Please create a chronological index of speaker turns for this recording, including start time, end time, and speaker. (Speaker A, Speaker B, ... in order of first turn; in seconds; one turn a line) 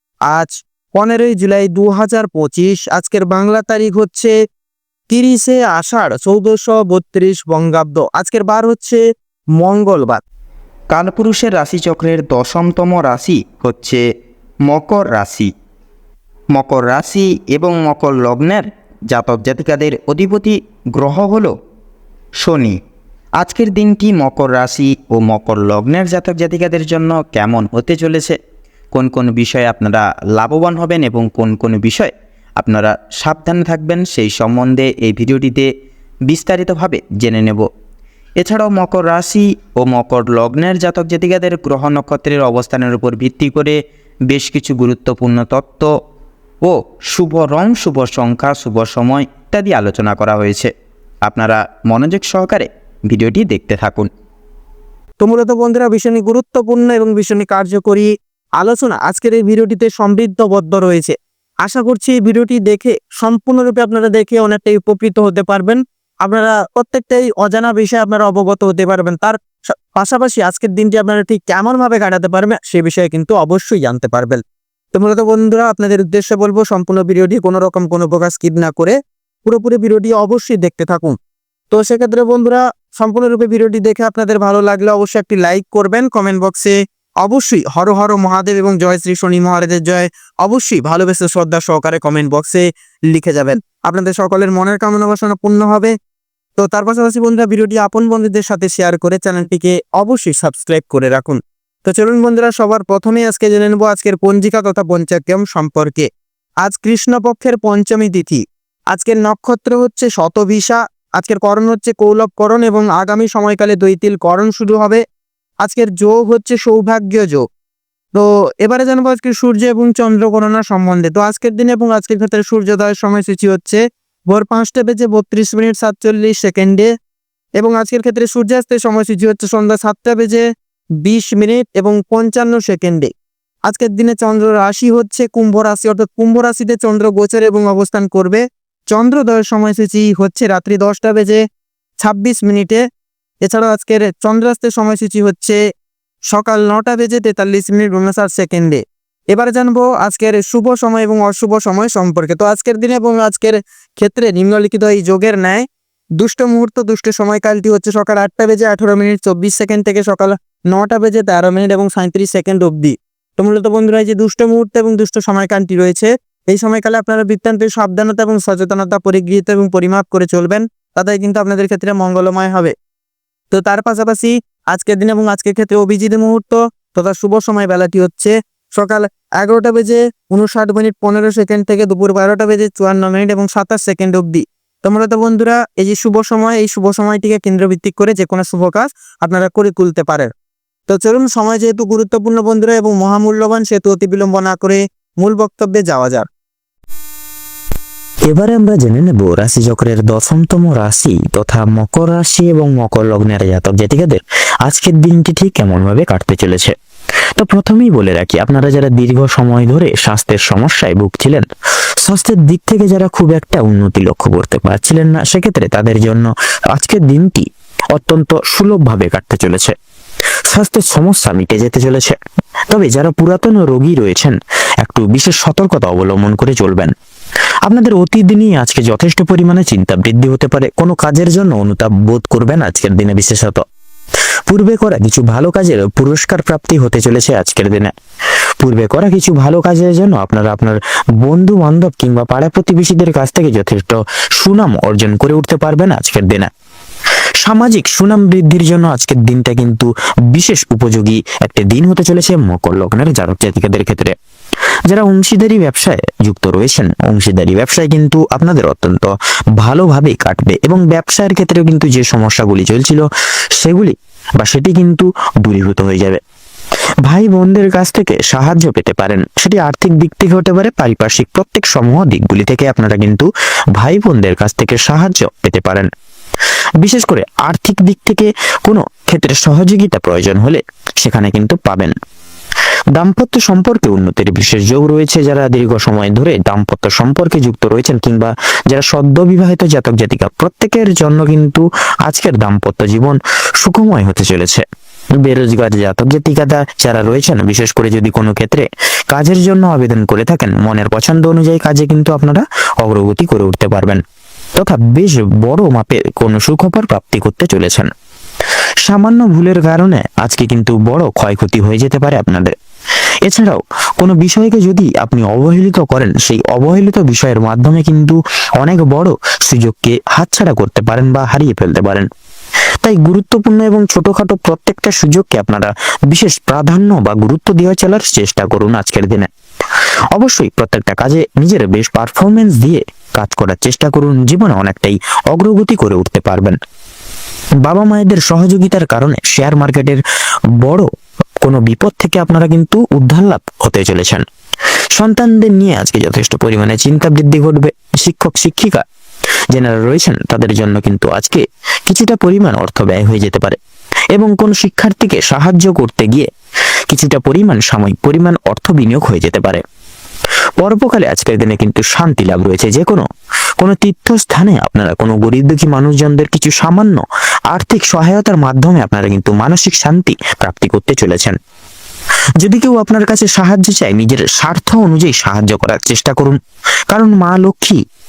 Speaker A: 0.3-4.3
Speaker A: 5.1-9.0
Speaker A: 9.6-10.2
Speaker B: 10.9-14.0
Speaker B: 14.7-15.5
Speaker B: 16.6-21.5
Speaker B: 22.4-22.8
Speaker B: 23.4-28.4
Speaker C: 25.4-27.3
Speaker B: 28.9-32.1
Speaker C: 29.1-29.5
Speaker B: 32.6-35.7
Speaker C: 33.5-35.4
Speaker B: 36.3-37.6
Speaker C: 36.6-36.9
Speaker B: 38.4-43.8
Speaker C: 40.0-41.1
Speaker B: 44.3-45.9
Speaker B: 46.6-50.7
Speaker C: 47.8-48.2
Speaker C: 49.9-50.6
Speaker B: 51.3-54.1
Speaker A: 55.2-74.4
Speaker A: 74.9-81.2
Speaker A: 81.7-96.0
Speaker A: 96.6-106.1
Speaker A: 106.6-115.0
Speaker A: 115.6-117.5
Speaker A: 118.1-126.9
Speaker A: 127.6-130.4
Speaker A: 131.0-133.1
Speaker A: 133.7-141.4
Speaker A: 142.0-142.8
Speaker A: 143.4-145.6
Speaker A: 146.3-155.7
Speaker A: 156.2-172.7
Speaker A: 173.5-190.3
Speaker A: 190.9-196.3
Speaker C: 198.3-206.7
Speaker C: 207.4-211.4
Speaker C: 212.0-219.7
Speaker C: 220.5-222.2
Speaker C: 222.7-226.9
Speaker C: 227.7-233.6
Speaker C: 234.5-237.9
Speaker C: 238.6-246.5
Speaker C: 247.4-254.1
Speaker C: 254.9-263.1
Speaker C: 263.6-266.2
Speaker C: 267.1-275.9
Speaker C: 276.8-281.9
Speaker C: 282.9-294.6
Speaker C: 295.2-304.0
Speaker C: 304.6-307.9
Speaker C: 308.8-312.5
Speaker C: 313.3-322.1
Speaker C: 322.8-329.3
Speaker C: 330.1-336.6
Speaker C: 337.6-340.0
Speaker C: 340.6-340.9
Speaker C: 341.4-344.2
Speaker C: 345.0-348.8
Speaker C: 349.5-353.6
Speaker C: 354.1-356.3
Speaker C: 356.9-359.6
Speaker C: 360.6-363.1
Speaker C: 363.6-371.4
Speaker C: 372.4-376.4
Speaker C: 376.9-377.8